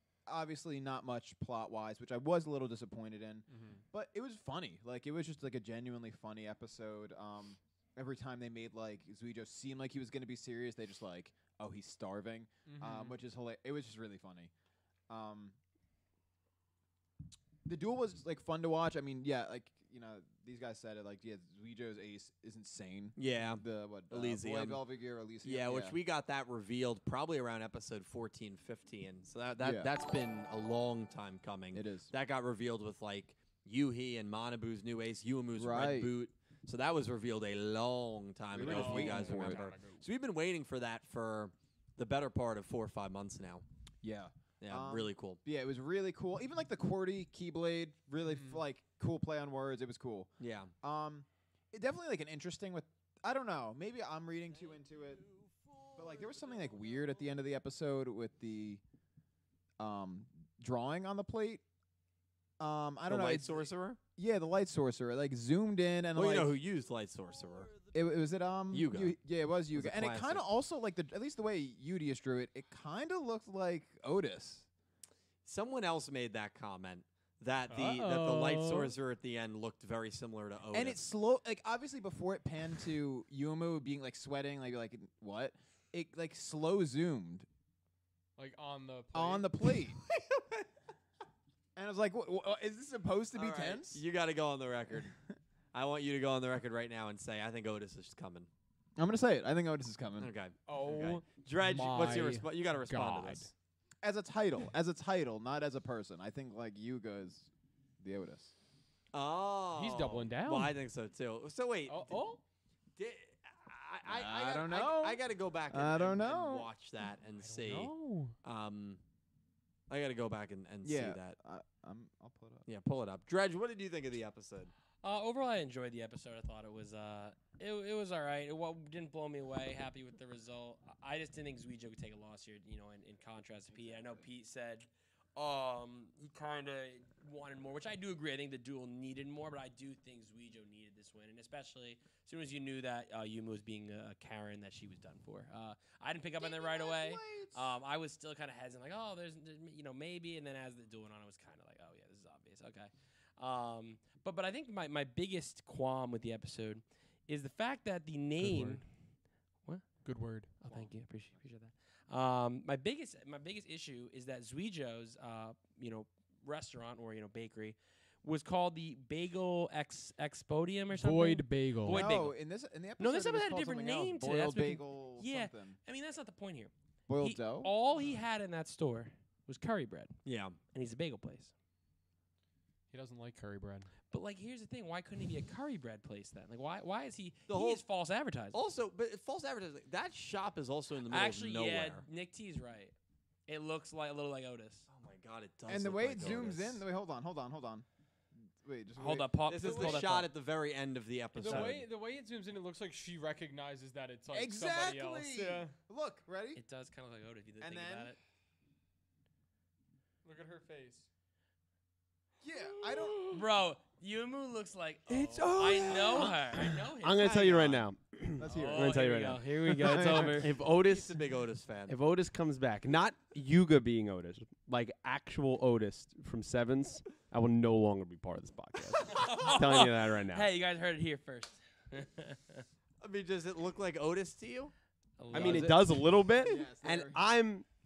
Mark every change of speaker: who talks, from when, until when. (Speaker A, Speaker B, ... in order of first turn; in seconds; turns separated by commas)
Speaker A: 0.3-14.5, Speaker B: 3.5-3.8, Speaker B: 12.7-13.2, Speaker A: 15.1-15.6, Speaker A: 17.6-26.0, Speaker C: 23.2-24.8, Speaker C: 25.4-43.6, Speaker A: 29.6-29.9, Speaker A: 31.7-32.1, Speaker A: 35.6-36.1, Speaker A: 38.5-39.7, Speaker B: 38.6-40.0, Speaker A: 44.0-55.3, Speaker C: 44.6-45.4, Speaker B: 48.3-48.6, Speaker C: 50.4-50.7, Speaker A: 56.0-58.8, Speaker A: 59.8-61.6, Speaker A: 62.6-66.6, Speaker C: 63.1-64.0, Speaker C: 66.2-67.7, Speaker A: 67.9-74.7, Speaker C: 68.7-69.2, Speaker C: 69.7-70.5, Speaker C: 75.5-81.0, Speaker B: 77.7-78.9, Speaker A: 80.7-87.5, Speaker B: 88.4-89.5, Speaker A: 89.1-90.0, Speaker A: 91.8-94.0, Speaker C: 93.3-95.1, Speaker C: 95.7-98.5, Speaker A: 99.0-100.3, Speaker C: 100.2-103.5, Speaker B: 100.7-103.5, Speaker A: 104.0-108.5, Speaker C: 109.1-112.2, Speaker B: 109.7-110.8, Speaker B: 111.9-112.4, Speaker C: 113.0-119.0, Speaker A: 114.1-116.7, Speaker B: 117.4-118.3, Speaker C: 119.9-121.4, Speaker A: 120.8-122.7, Speaker C: 122.7-124.7, Speaker D: 125.0-158.9, Speaker A: 133.7-134.2, Speaker A: 146.4-147.7, Speaker B: 158.4-158.8, Speaker D: 159.6-159.9, Speaker B: 160.0-160.5, Speaker D: 160.6-172.4, Speaker B: 170.9-172.1, Speaker A: 171.9-175.8, Speaker D: 173.0-181.5, Speaker A: 177.1-177.7, Speaker B: 177.9-178.2, Speaker C: 180.2-180.6, Speaker B: 182.9-183.9, Speaker D: 184.1-188.6, Speaker C: 187.5-187.8, Speaker C: 188.5-192.1, Speaker D: 191.1-192.9, Speaker D: 193.5-194.9, Speaker C: 194.9-196.8, Speaker A: 195.7-197.8, Speaker A: 198.6-200.1, Speaker D: 199.0-200.3, Speaker C: 199.5-201.8, Speaker B: 201.4-205.7, Speaker D: 201.4-201.8, Speaker A: 204.3-206.6, Speaker D: 206.6-208.2, Speaker A: 207.6-208.1, Speaker B: 210.2-211.1, Speaker A: 212.4-213.5, Speaker D: 213.2-217.8, Speaker E: 215.1-221.2, Speaker A: 218.4-220.4, Speaker D: 218.4-220.6, Speaker C: 220.6-222.0, Speaker E: 221.9-230.5, Speaker D: 228.9-232.7, Speaker C: 233.0-234.7, Speaker D: 235.2-235.9, Speaker E: 235.3-237.7, Speaker A: 235.3-237.2